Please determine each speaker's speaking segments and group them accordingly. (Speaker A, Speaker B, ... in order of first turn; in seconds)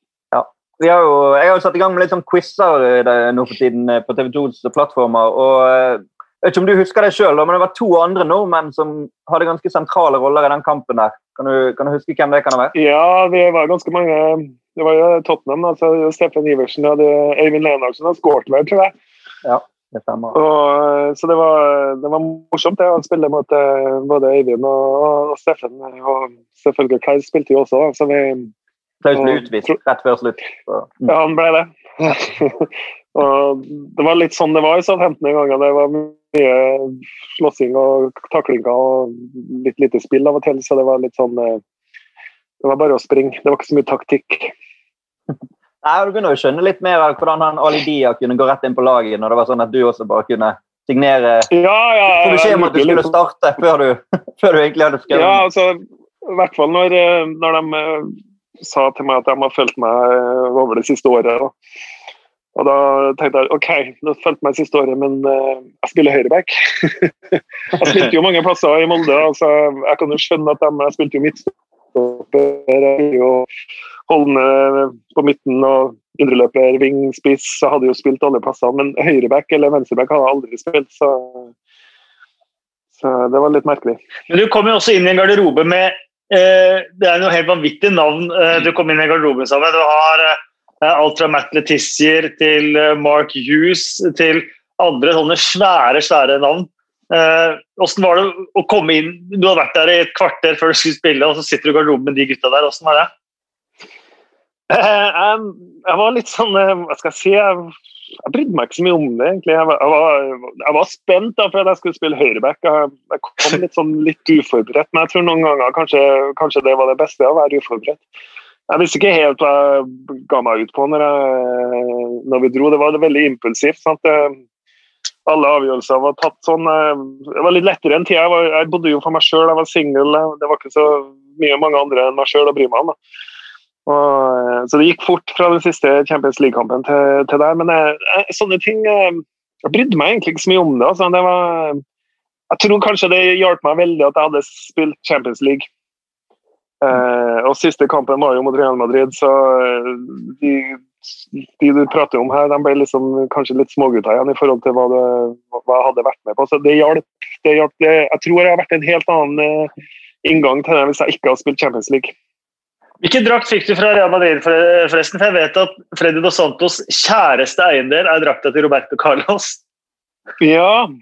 Speaker A: 0.3-12.7, 19.4-20.4, 29.0-31.1, 45.8-51.5, 52.2-55.4
Speaker B: 12.7-18.9, 20.3-28.5, 29.1-29.4, 31.1-41.6, 42.6-44.5, 51.5-53.1, 55.1-61.5, 62.5-73.5, 74.1-81.5, 83.0-84.0, 104.7-107.7, 108.2-118.0, 118.7-124.4, 125.2-132.9, 133.8-141.8, 142.5-145.7, 146.8-159.7, 160.2-162.1, 170.4-170.9
Speaker C: 84.3-103.1, 163.0-169.6